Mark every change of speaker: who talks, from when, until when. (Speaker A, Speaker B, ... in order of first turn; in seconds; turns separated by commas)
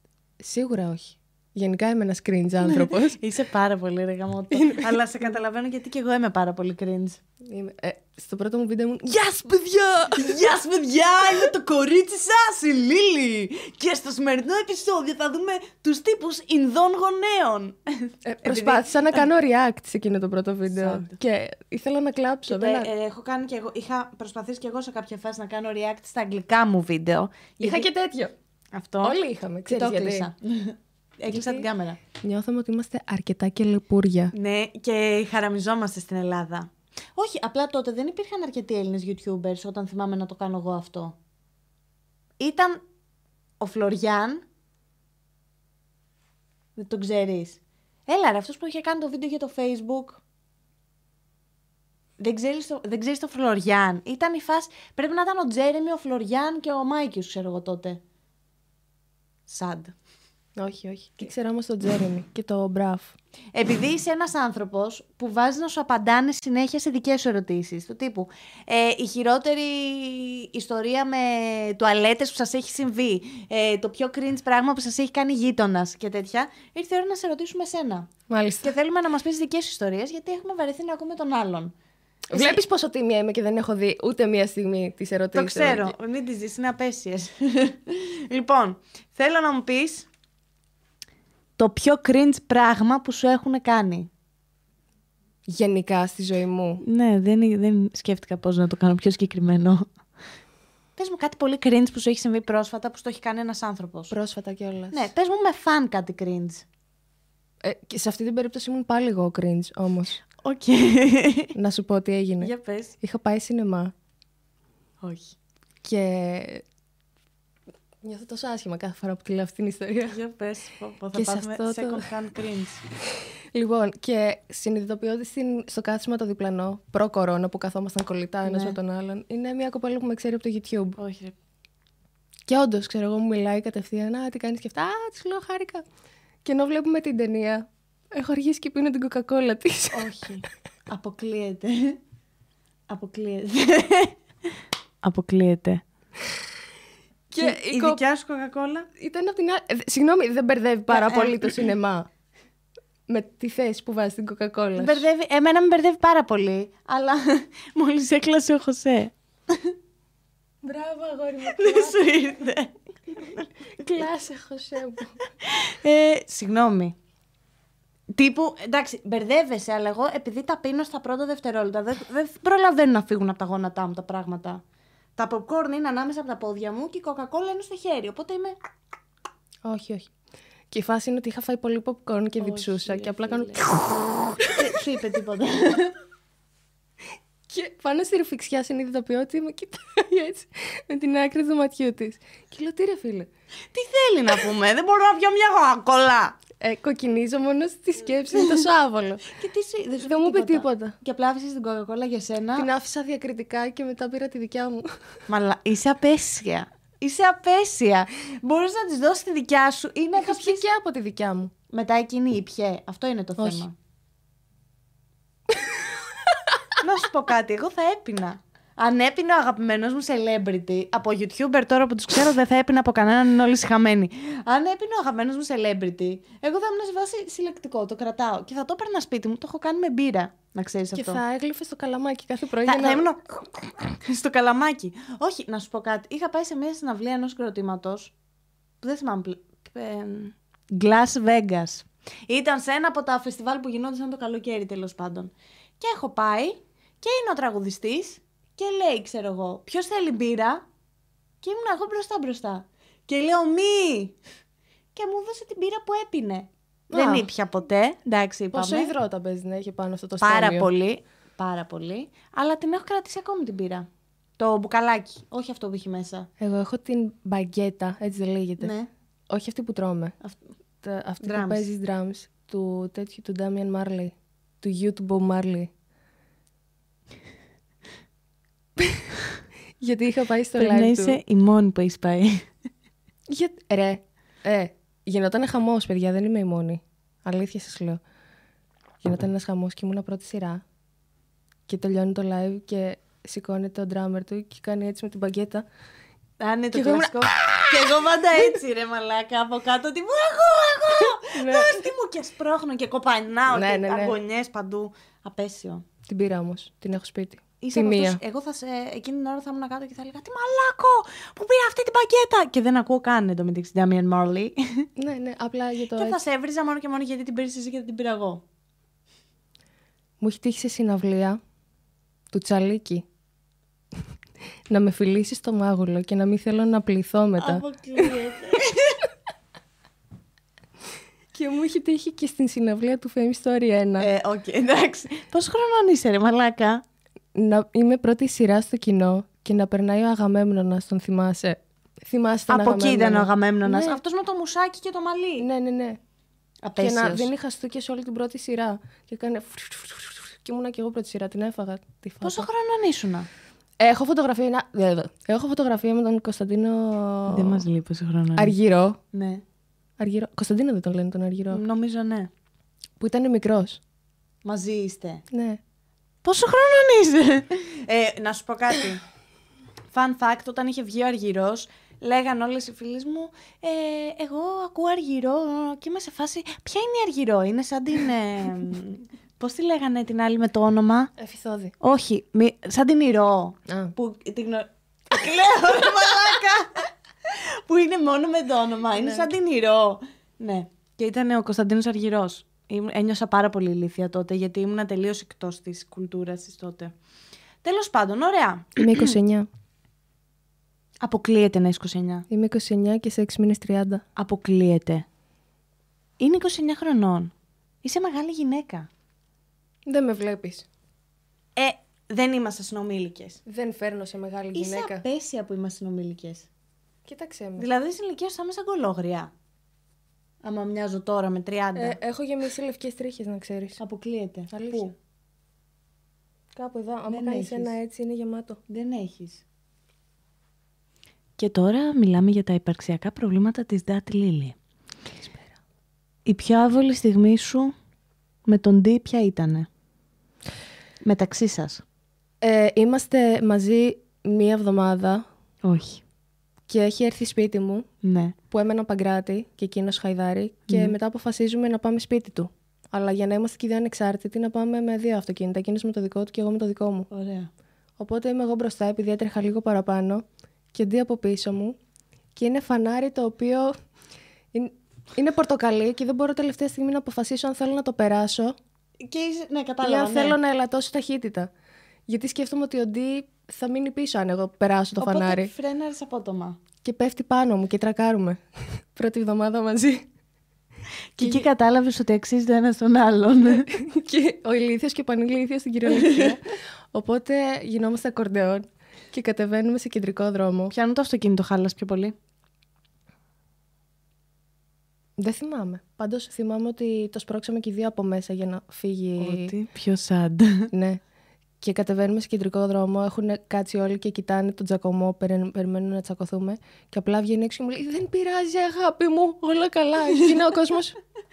Speaker A: 0.4-3.2, Speaker B: 2.6-7.2, Speaker A: 4.5-5.0, Speaker A: 7.4-10.3, Speaker B: 10.1-19.2, Speaker A: 18.2-22.9, Speaker B: 20.7-21.2, Speaker B: 22.5-27.9, Speaker A: 27.6-28.3, Speaker B: 28.7-32.0, Speaker A: 29.0-30.3, Speaker A: 31.3-31.7, Speaker A: 32.2-34.3, Speaker B: 34.3-41.1, Speaker B: 42.4-42.8, Speaker B: 43.6-44.4, Speaker B: 46.8-50.2, Speaker B: 52.2-58.0, Speaker B: 59.5-59.9, Speaker A: 60.6-63.1, Speaker B: 63.5-78.1, Speaker A: 78.3-78.7, Speaker B: 78.6-81.7, Speaker A: 82.3-85.9, Speaker B: 82.3-82.6, Speaker B: 85.3-90.1, Speaker B: 91.6-94.1, Speaker A: 95.5-96.8, Speaker B: 96.8-99.9, Speaker B: 101.0-104.1, Speaker A: 104.1-105.1, Speaker B: 104.9-106.7, Speaker A: 107.6-110.2, Speaker B: 110.4-111.5, Speaker A: 111.5-113.9, Speaker B: 112.4-112.9, Speaker B: 115.0-115.3, Speaker A: 115.8-116.6, Speaker A: 118.0-120.2, Speaker B: 120.1-122.8, Speaker A: 121.1-122.0, Speaker A: 123.5-131.0, Speaker B: 128.4-128.8, Speaker B: 131.0-131.3, Speaker A: 132.5-135.8, Speaker A: 136.4-140.1, Speaker B: 139.9-142.0, Speaker B: 142.9-144.2, Speaker B: 145.0-145.8, Speaker A: 147.3-148.0, Speaker B: 147.4-148.9, Speaker A: 149.0-152.1, Speaker B: 150.9-151.7, Speaker A: 153.1-155.1, Speaker B: 154.8-159.7, Speaker A: 160.6-162.2, Speaker B: 161.5-163.5, Speaker A: 163.7-165.2, Speaker B: 165.4-166.9, Speaker B: 168.1-174.6, Speaker B: 175.2-178.5, Speaker A: 179.6-180.1, Speaker A: 180.7-184.5, Speaker B: 182.4-183.6, Speaker B: 184.4-185.9, Speaker A: 187.5-193.3, Speaker B: 193.7-196.4, Speaker A: 196.6-199.3, Speaker B: 198.3-198.6, Speaker B: 199.3-202.7, Speaker A: 200.0-200.9, Speaker A: 202.6-204.9, Speaker B: 205.3-210.6, Speaker A: 210.2-211.5, Speaker B: 211.7-213.7, Speaker A: 213.4-213.6, Speaker B: 216.8-231.2, Speaker A: 230.9-233.1, Speaker B: 232.6-238.1, Speaker B: 238.8-250.6, Speaker B: 251.4-254.2, Speaker B: 254.9-258.9, Speaker A: 256.9-257.3, Speaker A: 258.5-260.7, Speaker B: 260.2-263.9, Speaker B: 264.4-266.3, Speaker A: 266.4-268.7, Speaker B: 268.6-268.9, Speaker A: 269.3-270.1, Speaker A: 270.8-275.7, Speaker B: 271.2-271.7, Speaker A: 278.8-279.1, Speaker A: 279.8-281.2, Speaker B: 280.6-282.5, Speaker A: 283.3-288.0, Speaker A: 289.0-290.6, Speaker A: 291.7-295.6, Speaker B: 296.4-305.8, Speaker A: 296.7-297.2, Speaker A: 301.3-301.8, Speaker A: 303.5-304.1, Speaker A: 306.1-308.2, Speaker B: 307.6-314.9, Speaker A: 315.0-316.2, Speaker B: 315.9-318.4, Speaker A: 320.2-321.4, Speaker A: 322.3-323.0, Speaker A: 324.7-328.1, Speaker B: 327.4-329.1, Speaker A: 331.3-334.1, Speaker B: 334.0-336.8, Speaker A: 337.3-344.0, Speaker B: 342.5-345.5, Speaker A: 345.4-346.0, Speaker B: 346.6-347.3, Speaker A: 346.8-352.5, Speaker B: 352.2-353.3, Speaker A: 353.8-357.6, Speaker B: 357.3-358.5, Speaker A: 358.4-359.0, Speaker B: 359.1-359.4, Speaker A: 360.0-361.6, Speaker B: 361.5-362.3, Speaker A: 363.0-363.8, Speaker B: 364.4-365.2, Speaker A: 365.3-365.6, Speaker B: 366.2-369.0, Speaker B: 369.9-381.1, Speaker A: 381.2-381.7, Speaker B: 381.8-396.9, Speaker A: 388.9-389.3, Speaker B: 397.6-399.1, Speaker A: 398.8-399.5, Speaker B: 401.0-402.2, Speaker A: 402.3-404.0, Speaker B: 404.1-405.1, Speaker B: 406.2-407.3, Speaker B: 407.8-408.9, Speaker A: 409.9-410.7, Speaker B: 411.6-413.4, Speaker A: 413.4-415.0, Speaker B: 414.5-416.5, Speaker A: 417.0-417.7, Speaker B: 417.6-419.3, Speaker B: 420.4-422.0, Speaker A: 421.8-423.8, Speaker B: 423.8-424.9, Speaker A: 424.5-424.9, Speaker A: 426.5-428.6, Speaker B: 427.1-427.7, Speaker B: 428.7-429.4, Speaker B: 431.4-434.6, Speaker A: 435.2-435.6, Speaker B: 436.2-437.7, Speaker B: 438.5-439.7, Speaker B: 441.0-441.8, Speaker A: 442.4-445.2, Speaker B: 445.6-446.0, Speaker A: 446.7-447.9, Speaker B: 448.0-448.3, Speaker A: 448.5-457.1, Speaker B: 450.7-450.9, Speaker B: 457.1-457.5, Speaker A: 458.0-461.8, Speaker A: 462.4-463.8, Speaker A: 464.5-468.6, Speaker B: 469.0-470.4, Speaker A: 469.8-471.5, Speaker A: 472.1-475.5, Speaker B: 475.0-476.6, Speaker A: 476.8-480.1, Speaker B: 481.1-483.7, Speaker A: 483.5-490.7, Speaker B: 485.9-486.3, Speaker B: 490.7-492.1, Speaker A: 495.2-499.5, Speaker B: 499.2-500.7, Speaker A: 500.7-501.0, Speaker A: 501.6-511.0, Speaker B: 510.1-510.4